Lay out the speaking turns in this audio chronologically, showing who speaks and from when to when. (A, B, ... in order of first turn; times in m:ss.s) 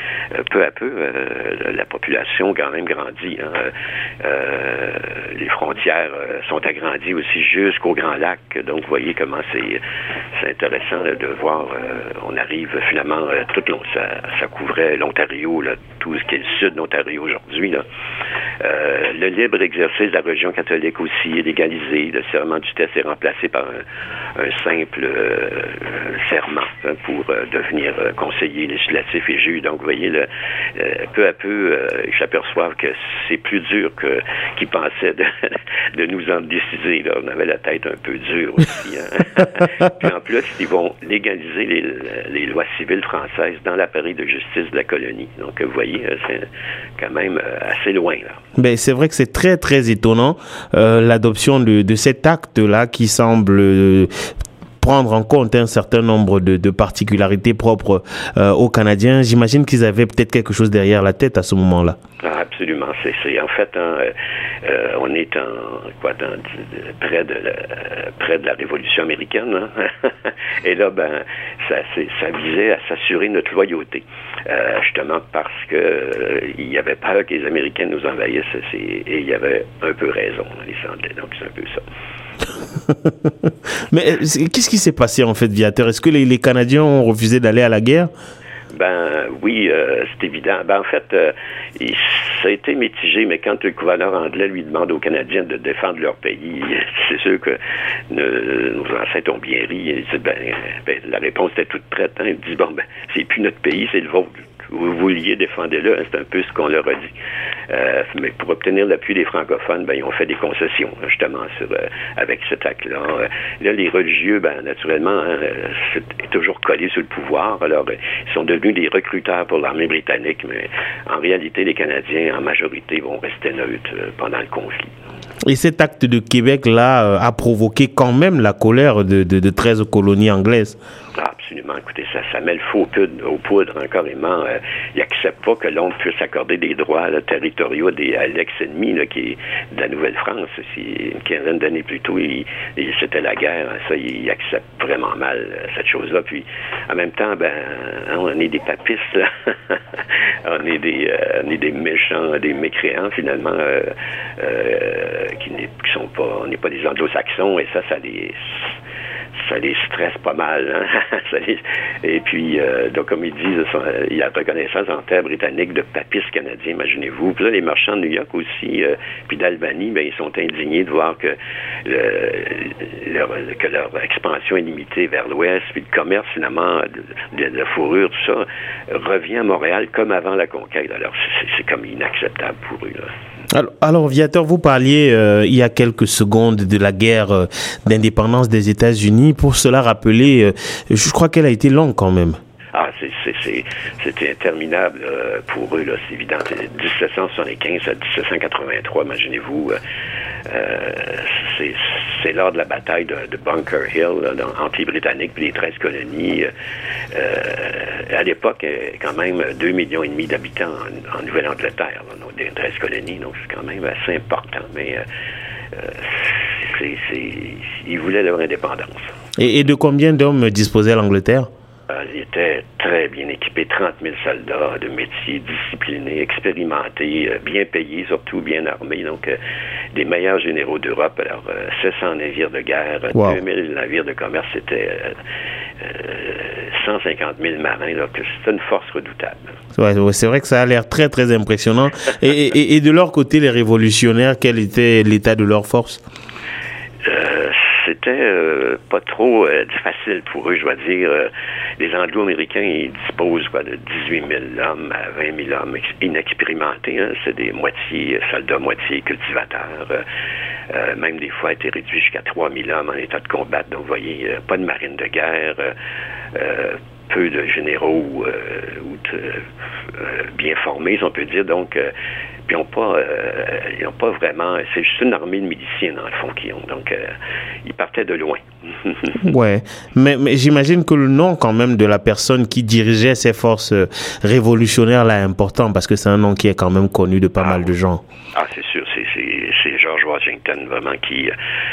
0:00.3-0:17.8 A
0:18.6-0:23.8 A
0:24.4-0:48.4 A
0:48.6-0:54.3 B
0:54.8-1:02.0 B
1:02.2-1:21.8 A
1:22.9-1:28.1 B
1:28.7-1:47.1 A
1:47.7-2:05.0 A
2:05.4-2:10.8 B
2:11.2-2:38.8 A
2:39.4-3:03.1 A
3:03.5-3:12.4 B
3:12.7-3:19.8 A
3:20.5-3:26.5 A
3:27.1-3:35.0 A
3:35.7-3:39.1 A
3:39.4-3:41.5 B
3:41.9-3:49.4 A
3:49.9-3:55.2 A
3:53.1-3:53.4 B
3:55.8-3:59.5 A
3:59.8-4:06.0 B
4:07.0-4:20.0 A
4:20.7-4:25.8 A
4:26.3-4:31.9 A
4:32.5-4:37.1 A
4:37.6-4:39.2 A
4:39.2-4:48.0 B
4:48.3-4:51.3 A